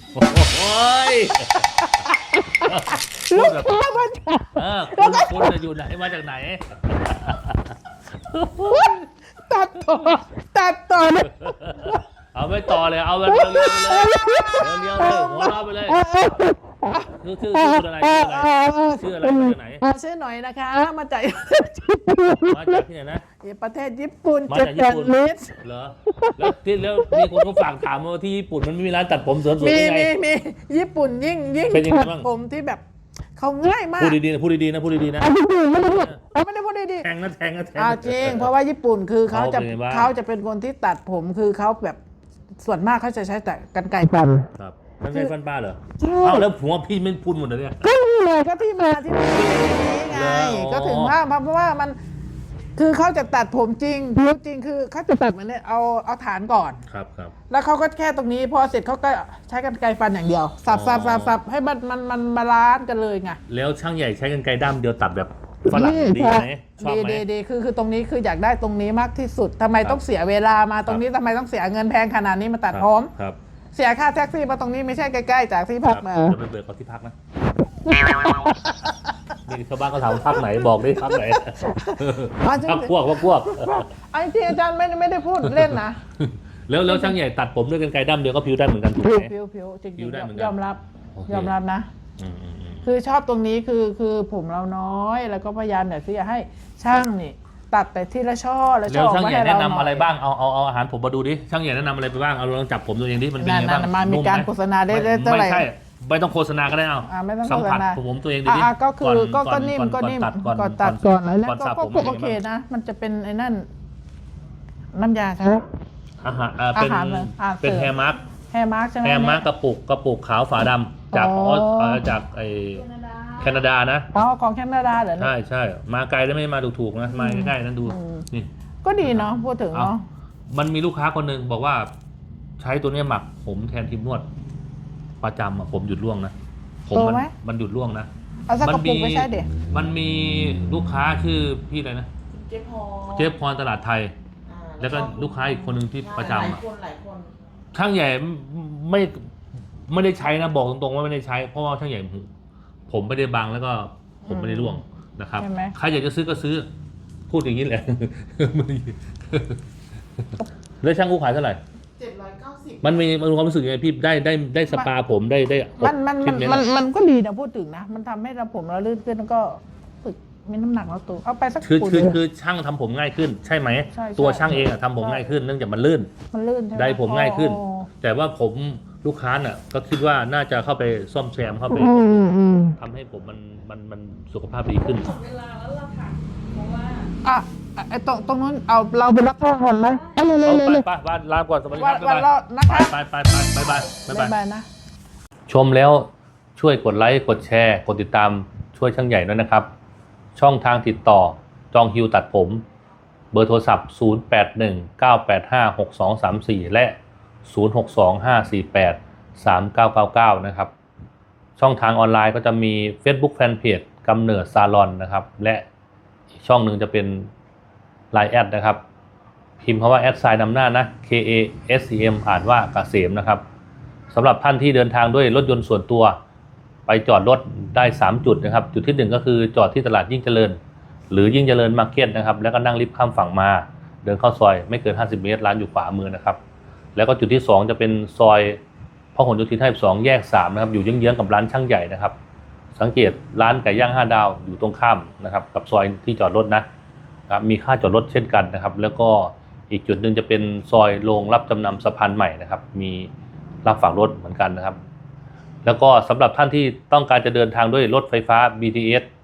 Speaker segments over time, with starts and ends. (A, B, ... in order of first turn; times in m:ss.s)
0:00.1-0:01.9 A
0:02.0-0:05.6 B
0:02.6-0:03.9 A
0:04.6-0:09.0 A
0:08.7-0:12.0 B
0:09.9-0:10.2 A
0:11.0-0:16.1 A
0:13.3-0:22.6 B
0:17.0-0:19.8 A
0:22.3-0:23.2 A
0:23.4-0:25.5 B
0:24.5-0:30.1 A
0:27.1-0:27.6 B
0:29.6-0:32.8 B
0:31.7-0:32.3 A
0:33.4-0:34.2 B
0:34.0-0:36.2 A
0:35.2-0:37.1 B
0:37.0-0:38.5 A
0:37.8-0:42.0 B
0:39.3-0:40.1 A
0:42.6-0:44.5 B
0:44.6-0:47.9 A
0:46.0-0:46.4 B
0:47.8-0:52.0 B
0:49.3-0:51.2 A
0:52.8-0:56.8 B
0:56.9-0:57.4 A
0:57.5-1:03.4 B
1:00.7-1:01.4 A
1:03.5-1:07.2 A
1:05.7-1:13.1 B
1:12.7-1:13.4 A
1:13.7-1:16.4 B
1:15.9-1:17.1 A
1:17.9-1:18.9 B
1:19.5-1:23.9 A
1:21.1-1:26.0 B
1:25.4-1:29.3 A
1:26.8-1:27.2 B
1:29.0-1:31.9 B
1:30.0-1:30.6 A
1:31.2-1:31.5 A
1:32.2-1:32.9 A
1:32.8-1:40.1 B
1:38.9-1:52.4 A
1:43.4-1:45.7 B
1:47.1-1:53.7 B
1:54.9-1:55.6 B
1:56.2-1:58.2 A
1:56.7-1:57.9 B
1:58.5-1:59.4 B
1:59.0-2:04.1 A
2:01.1-2:02.0 B
2:04.1-2:05.3 B
2:05.2-2:08.5 A
2:07.1-2:08.2 B
2:08.8-2:10.0 B
2:09.0-2:09.9 A
2:10.5-2:11.9 A
2:12.6-2:14.3 A
2:15.2-2:16.3 A
2:16.9-2:18.1 A
2:16.9-2:17.3 B
2:18.5-2:19.5 B
2:18.6-2:22.1 A
2:22.4-2:23.1 C
2:23.1-2:24.1 A
2:24.5-2:24.9 C
2:24.8-2:26.6 A
2:26.2-2:27.3 C
2:27.7-2:29.2 A
2:29.9-2:32.3 A
2:32.9-2:36.7 A
2:34.3-2:34.8 B
2:35.4-2:35.7 B
2:37.3-2:39.6 A
2:40.2-2:41.6 A
2:42.0-2:42.6 B
2:42.0-2:42.8 C
2:42.8-2:46.7 A
2:45.8-2:52.2 B
2:51.6-2:56.1 A
2:53.9-2:55.2 B
2:56.3-2:57.9 B
2:56.8-3:05.2 A
3:01.7-3:02.8 B
3:05.2-3:07.1 C
3:07.2-3:10.8 B
3:10.4-3:14.3 A
3:11.7-3:12.9 B
3:14.1-3:14.7 B
3:15.5-3:19.7 A
3:20.4-3:22.6 A
3:23.3-3:30.7 A
3:31.6-3:35.6 A
3:36.4-3:37.3 A
3:38.1-3:38.8 A
3:39.6-3:43.4 A
3:44.1-3:46.2 A
3:46.9-3:50.6 A
3:51.1-3:56.4 A
3:57.0-3:58.6 A
3:59.2-4:02.1 A
4:02.8-4:06.7 A
4:07.3-4:13.1 A
4:13.6-4:14.8 A
4:15.6-4:19.1 A